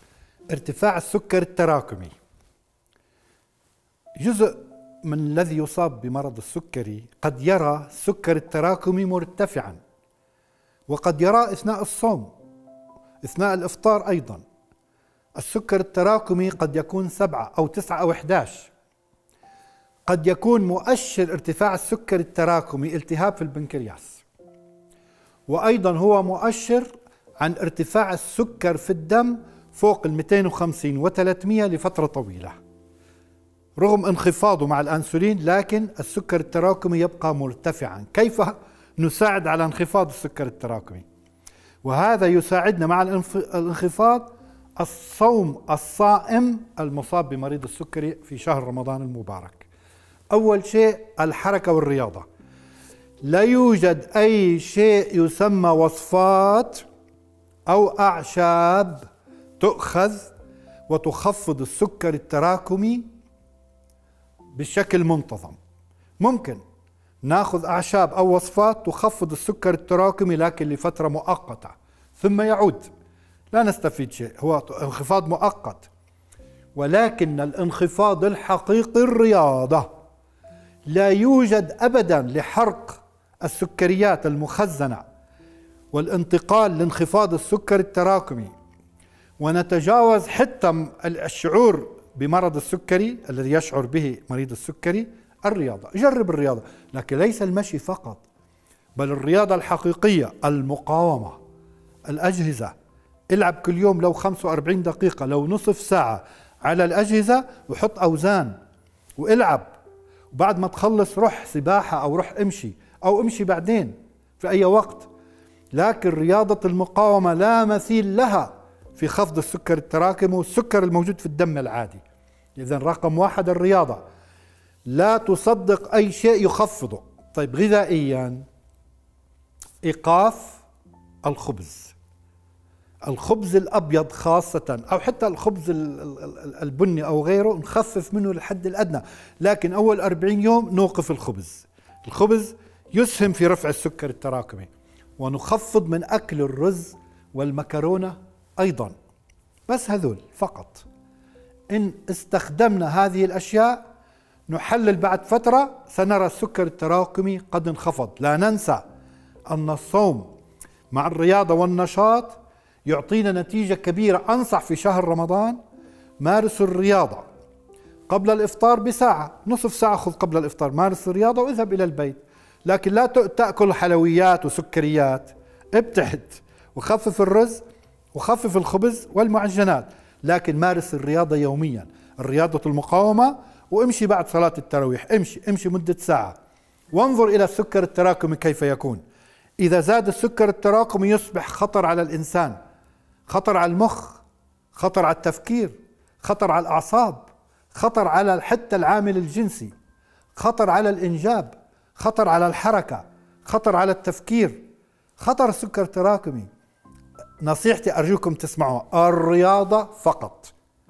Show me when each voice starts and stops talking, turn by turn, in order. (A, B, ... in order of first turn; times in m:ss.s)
0:00.5-0:02.1 A
0:04.2-0:09.8 A
0:10.9-0:12.3 A
0:13.2-0:14.4 A
0:15.4-0:18.7 A
0:20.0-0:24.2 A
0:25.5-0:32.5 A
0:33.8-0:41.0 A
0:41.8-0:49.7 A
0:50.3-0:52.2 A
0:53.2-0:56.8 A
0:57.7-0:59.1 A
0:59.6-1:00.3 A
1:00.9-1:03.1 A
1:04.5-1:05.6 A
1:06.2-1:06.6 A
1:07.2-1:12.9 A
1:13.5-1:15.9 A
1:16.8-1:19.9 A
1:20.9-1:25.0 A
1:25.9-1:28.5 A
1:29.4-1:38.2 A
1:39.0-1:41.4 A
1:42.1-1:42.7 A
1:43.3-1:48.5 A
1:49.2-1:49.7 A
1:50.3-1:55.1 A
1:55.7-2:02.0 A
2:02.6-2:04.0 A
2:04.8-2:08.4 A
2:09.8-2:10.6 A
2:11.2-2:11.9 A
2:13.0-2:28.9 A
2:29.7-2:30.8 A
2:31.7-2:33.8 A
2:34.5-2:38.8 A
2:39.5-2:40.3 A
2:40.9-2:45.6 A
2:46.2-2:47.2 A
2:48.1-2:57.6 A
2:58.1-3:06.4 A
3:06.9-3:09.0 A
3:09.6-3:12.6 A
3:13.3-3:14.2 A
3:14.7-3:19.7 A
3:20.4-3:24.6 A
3:25.2-3:26.5 A
3:27.4-3:30.5 A